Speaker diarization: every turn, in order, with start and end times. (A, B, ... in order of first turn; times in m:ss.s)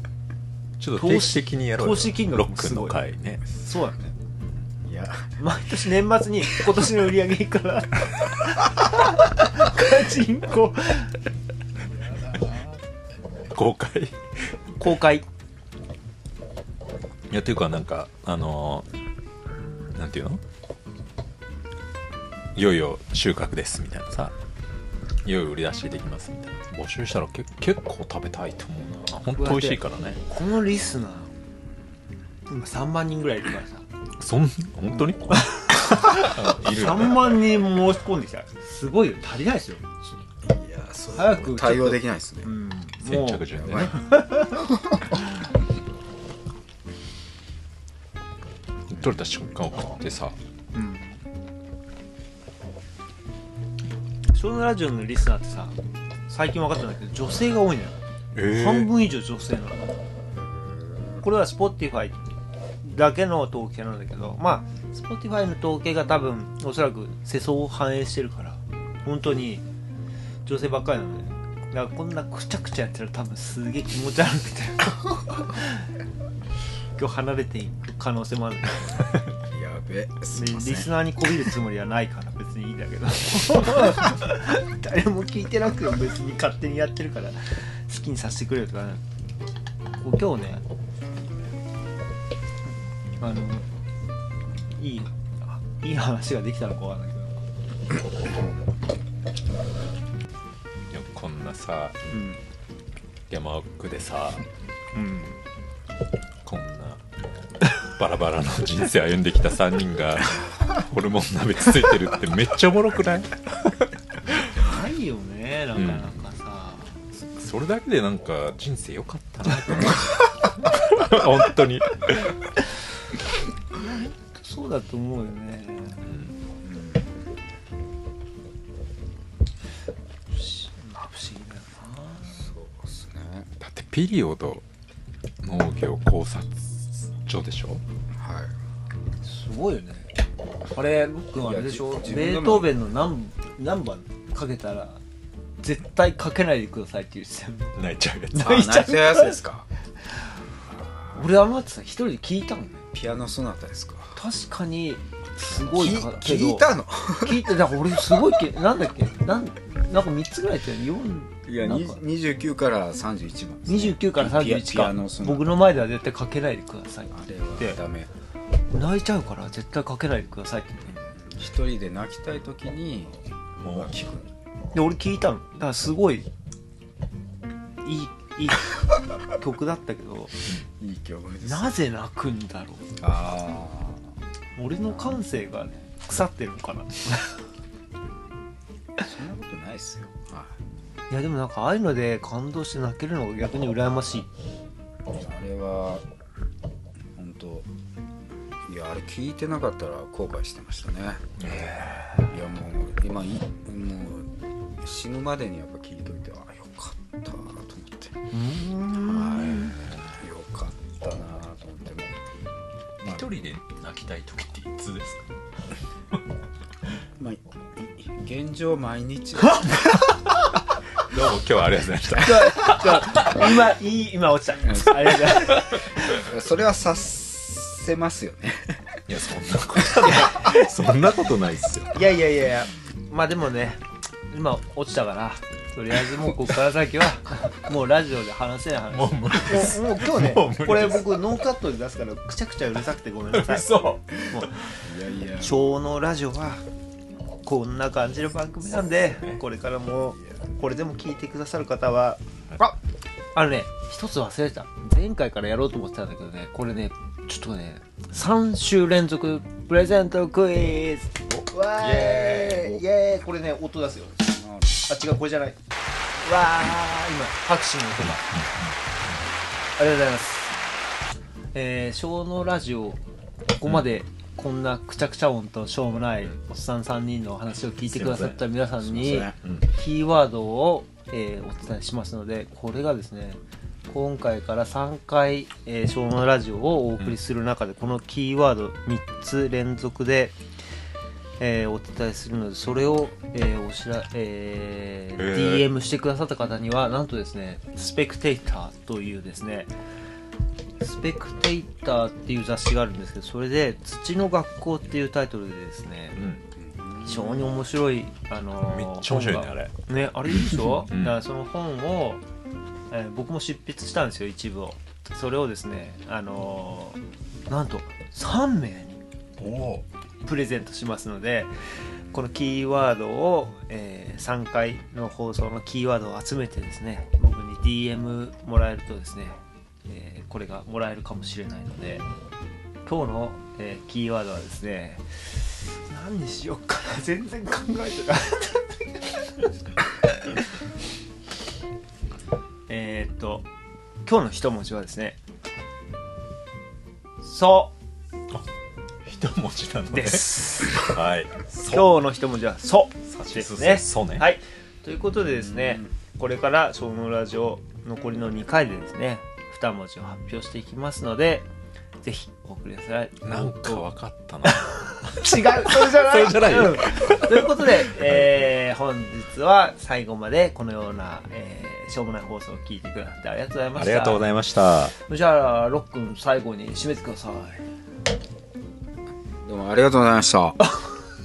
0:00.8-0:03.7 A
0:01.0-0:03.0 B
0:03.5-0:04.1 B
0:04.8-0:05.4 C
0:05.4-0:11.2 B
0:13.5-0:14.5 A
0:14.8-0:15.2 B
0:17.3-0:18.8 A
0:19.9-0:20.4 A
0:22.5-0:24.3 A
0:25.2-0:30.2 A
0:29.4-0:31.3 B
0:32.5-0:33.8 B
0:34.2-0:37.4 A
0:34.9-0:40.1 B
0:40.4-0:42.5 C
0:41.1-0:45.5 B
0:43.0-0:44.1 A
0:43.6-0:43.9 C
0:48.9-0:50.4 A
0:50.7-0:51.2 B
0:54.3-0:59.9 B
0:58.3-0:58.9 A
1:00.3-1:01.2 C
1:01.2-1:02.2 B
1:02.8-1:09.6 B
1:10.4-1:15.9 B
1:17.0-1:19.1 B
1:19.4-1:20.9 C
1:20.3-1:29.0 B
1:30.0-1:30.6 B
1:33.2-1:33.6 B
1:34.7-1:37.4 B
1:40.9-1:42.1 A
1:42.1-1:42.4 B
1:43.3-1:44.4 A
1:44.9-1:45.4 B
1:46.4-1:47.0 A
1:47.8-1:54.6 A
1:54.5-1:57.0 B
1:55.7-1:56.2 A
1:57.1-2:02.5 A
2:03.7-2:06.0 B
2:06.0-2:06.4 A
2:06.6-2:07.1 C
2:10.3-2:12.5 B
2:12.3-2:13.5 C
2:13.6-2:14.6 A
2:15.4-2:17.8 A
2:18.1-2:18.6 C
2:19.2-2:20.1 B
2:20.7-2:25.0 B
2:21.4-2:22.7 C
2:25.6-2:27.8 B
2:27.8-2:28.7 A
2:28.3-2:29.4 B
2:28.4-2:29.7 C
2:31.1-2:32.8 B
2:32.9-2:34.2 C
2:34.1-2:42.0 B
2:35.5-2:36.1 A
2:35.7-2:38.2 C
2:41.4-2:45.5 C
2:43.7-2:47.8 B
2:47.1-2:48.1 C
2:48.7-2:51.1 B
2:51.1-2:54.3 C
2:53.6-2:53.9 A
2:54.7-2:56.3 B
2:57.8-3:00.4 B
3:00.8-3:01.8 C
3:01.4-3:02.9 B
3:03.0-3:04.1 C
3:04.6-3:07.4 B
3:04.8-3:05.9 C
3:09.0-3:10.6 C
3:11.1-3:14.3 B
3:15.1-3:16.0 C
3:17.1-3:17.7 C
3:18.6-3:24.3 C
3:21.4-3:22.2 A
3:24.8-3:28.2 C
3:28.3-3:29.8 B
3:29.2-3:30.2 A
3:30.2-3:32.4 C
3:33.0-3:35.3 A
3:37.2-3:40.1 C
3:41.0-3:43.4 A
3:42.2-3:46.1 B
3:45.1-3:45.6 A
3:46.0-3:49.0 C
3:49.1-3:52.0 A
3:51.9-4:04.8 B
3:58.9-4:01.2 A
4:03.3-4:04.5 A
4:04.8-4:05.6 C
4:05.4-4:06.6 B
4:07.4-4:12.8 B
4:13.3-4:25.6 B
4:21.8-4:22.8 A
4:24.3-4:24.7 C
4:26.2-4:28.2 B
4:28.0-4:28.8 A
4:29.8-4:30.6 B
4:31.5-4:33.0 B
4:33.6-4:50.4 B
4:38.0-4:38.3 A
4:38.8-4:39.4 C
4:39.4-4:39.7 A
4:51.4-4:59.7 B
4:55.2-4:55.7 A
5:00.8-5:06.2 B
5:06.1-5:06.4 A
5:06.6-5:07.6 C
5:07.0-5:12.2 B
5:08.6-5:09.7 A
5:10.3-5:11.2 A
5:12.9-5:19.0 B
5:19.4-5:19.8 A
5:20.2-5:32.0 B
5:32.8-5:39.5 B
5:42.7-5:43.5 B
5:44.0-5:45.2 B
5:47.2-5:47.7 B
5:49.0-5:51.9 A
5:49.9-5:50.9 B
5:51.5-6:01.5 B
5:53.1-5:54.3 A
6:02.0-6:03.8 B
6:03.2-6:08.4 A
6:04.9-6:14.2 B
6:13.7-6:14.9 A
6:14.9-6:17.6 B
6:19.4-6:20.6 C